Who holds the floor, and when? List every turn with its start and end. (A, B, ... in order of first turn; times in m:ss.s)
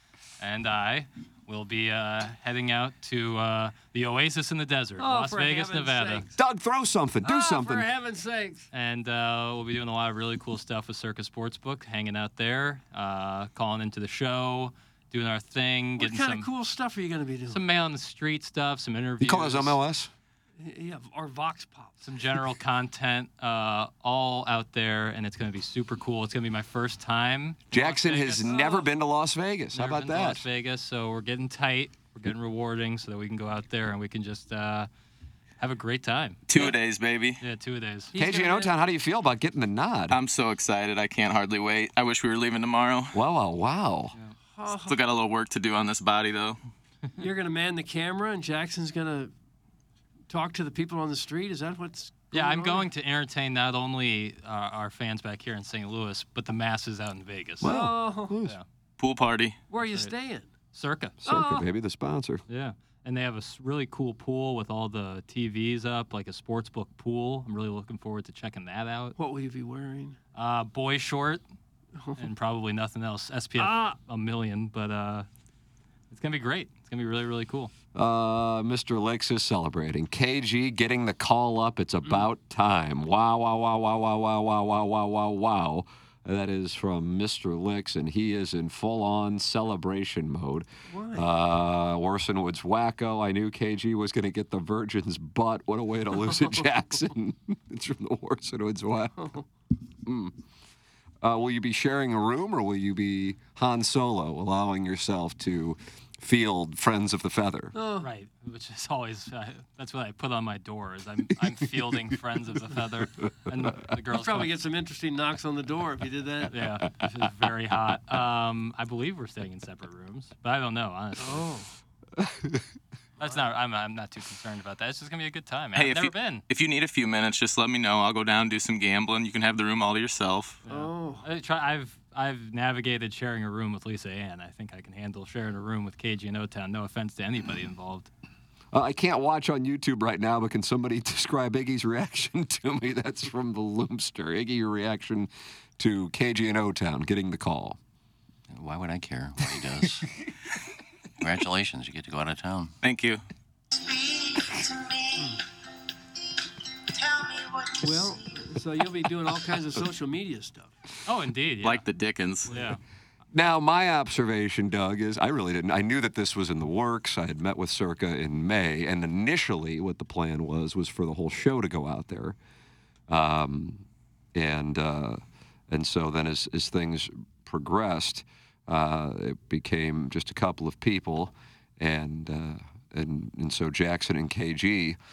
0:00.4-0:06.2 A
0:05.0-0:06.3 B
0:06.4-0:07.9 C
0:07.2-0:08.7 B
0:08.7-0:16.5 A
0:16.0-0:17.6 B
0:17.5-0:19.8 A
0:19.2-0:20.1 C
0:20.6-0:22.1 B
0:22.0-0:28.6 A
0:27.7-0:30.4 C
0:28.4-0:28.9 B
0:29.7-0:34.9 A
0:35.6-0:36.7 A
0:36.5-0:37.4 D
0:37.4-0:38.1 A
0:38.1-0:38.8 B
0:38.2-0:40.2 C
0:40.1-0:43.2 D
0:43.1-0:44.1 C
0:44.5-0:45.0 B
0:44.8-0:46.6 D
0:47.2-0:49.3 B
0:50.3-0:52.9 B
0:52.3-0:57.8 A
0:57.6-0:58.6 C
0:57.6-0:58.4 B
0:59.0-0:59.6 D
0:59.7-1:00.5 B
0:59.8-1:00.1 A
1:00.7-1:01.2 A
1:01.2-1:01.7 B
1:01.2-1:02.4 C
1:02.5-1:09.1 A
1:09.2-1:10.2 B
1:10.3-1:11.4 A
1:12.0-1:12.3 B
1:12.2-1:15.3 A
1:13.6-1:14.0 B
1:16.1-1:17.7 A
1:17.9-1:39.1 C
1:30.9-1:31.3 B
1:36.2-1:36.6 B
1:39.2-1:39.4 B
1:40.0-1:40.4 C
1:41.2-1:47.7 C
1:47.7-1:48.1 B
1:48.0-1:54.5 A
1:54.1-1:56.6 B
1:56.5-2:01.5 A
2:01.2-2:01.7 B
2:02.2-2:02.6 C
2:03.2-2:03.4 B
2:03.2-2:06.4 A
2:05.7-2:10.6 D
2:10.6-2:11.3 B
2:10.6-2:18.1 A
2:18.7-2:27.8 C
2:28.5-2:30.1 E
2:31.2-2:32.7 E
2:32.8-2:33.2 D
2:35.2-2:35.4 B
2:37.8-2:40.7 B
2:41.0-2:41.9 A
2:41.6-2:42.5 D
2:42.4-2:42.8 A
2:43.3-2:52.4 C
2:53.1-3:05.0 C